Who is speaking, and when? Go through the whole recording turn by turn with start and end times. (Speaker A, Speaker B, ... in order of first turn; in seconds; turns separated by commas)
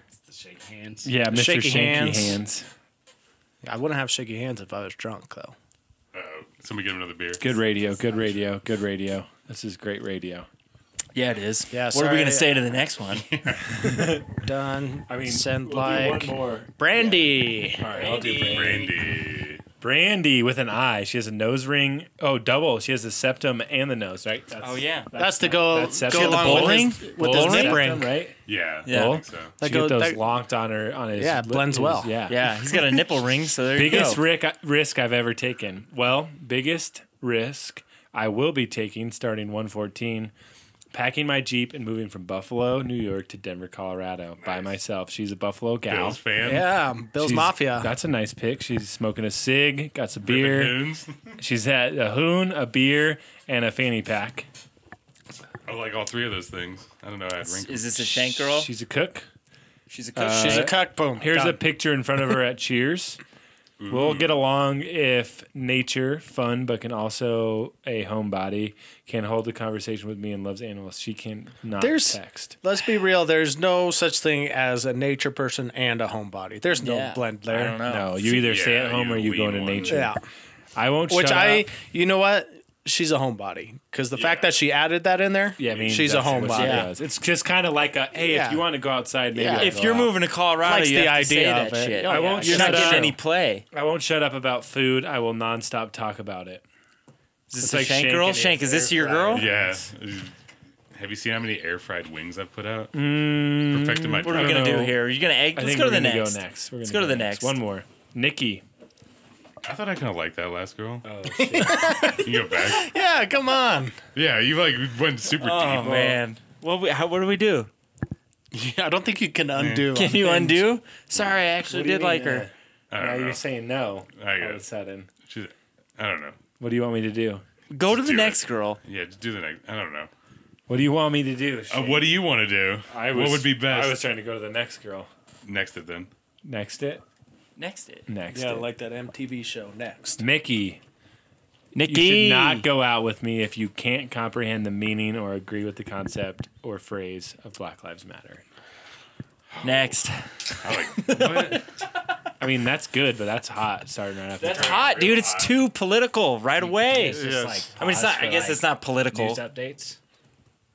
Speaker A: 0.3-1.2, Speaker B: 1.0-2.7, Speaker C: 1.3-2.4, Speaker C: 3.6-5.5, Speaker D: 6.1-7.6, Speaker B: 7.4-10.5, Speaker E: 11.1-13.2, Speaker C: 11.7-12.6, Speaker D: 13.3-13.6, Speaker B: 13.7-14.3, Speaker C: 14.4-17.8, Speaker B: 15.1-17.0, Speaker B: 17.8-18.9, Speaker E: 17.8-18.9, Speaker D: 18.1-19.6, Speaker B: 19.8-28.4, Speaker E: 24.6-25.1, Speaker C: 25.1-28.1, Speaker E: 26.0-27.8, Speaker D: 28.4-29.5, Speaker E: 28.9-29.2, Speaker B: 28.9-32.4, Speaker C: 29.6-30.2, Speaker C: 31.2-32.1, Speaker E: 32.3-34.2, Speaker B: 33.7-40.3, Speaker B: 40.9-46.5, Speaker D: 44.4-44.7, Speaker D: 45.9-46.6, Speaker C: 46.4-47.9, Speaker B: 47.2-50.8, Speaker D: 50.2-51.3, Speaker B: 51.4-54.5, Speaker D: 55.6-58.1, Speaker E: 57.4-58.7, Speaker B: 58.1-59.3, Speaker E: 59.9-60.7, Speaker B: 60.2-63.2, Speaker C: 60.3-61.6, Speaker D: 63.8-64.4, Speaker B: 63.9-72.5, Speaker C: 71.8-77.8, Speaker E: 76.7-78.2, Speaker B: 77.8-80.2, Speaker D: 78.2-80.1, Speaker C: 79.8-80.2, Speaker B: 80.8-81.7, Speaker C: 81.1-86.9, Speaker D: 84.1-84.5, Speaker B: 85.6-90.2, Speaker D: 85.7-86.5, Speaker E: 86.5-86.9, Speaker C: 88.2-88.6, Speaker C: 89.3-89.7, Speaker E: 89.5-93.6, Speaker C: 90.6-93.1, Speaker B: 92.0-93.2, Speaker B: 93.7-96.6, Speaker E: 97.5-99.5, Speaker B: 97.6-99.9, Speaker D: 99.3-100.3, Speaker D: 100.9-104.8, Speaker B: 102.9-105.0, Speaker E: 104.2-107.5, Speaker B: 105.5-108.6, Speaker D: 109.6-111.1, Speaker B: 111.0-112.1, Speaker C: 111.4-114.0, Speaker D: 111.7-112.9, Speaker D: 114.1-116.2, Speaker E: 115.3-117.7, Speaker B: 115.8-116.2, Speaker C: 118.5-120.7, Speaker D: 119.5-119.9, Speaker E: 119.9-122.5, Speaker B: 121.6-125.1, Speaker D: 122.9-123.4, Speaker D: 124.1-124.6, Speaker D: 125.2-126.4, Speaker B: 126.6-127.4, Speaker E: 127.7-128.8, Speaker D: 127.8-130.1, Speaker B: 130.7-132.2, Speaker D: 131.7-134.0, Speaker B: 132.9-135.1, Speaker D: 135.4-136.1, Speaker B: 136.4-137.0, Speaker E: 137.6-138.1, Speaker B: 138.1-138.7, Speaker C: 138.3-140.2, Speaker B: 140.2-140.8, Speaker E: 141.7-142.7, Speaker B: 141.8-148.4, Speaker D: 149.5-149.9, Speaker E: 149.6-151.6, Speaker D: 150.6-151.7, Speaker B: 151.2-151.5, Speaker B: 152.4-155.0, Speaker E: 154.4-159.4, Speaker D: 154.4-155.6, Speaker A: 156.6-160.0, Speaker C: 157.2-157.6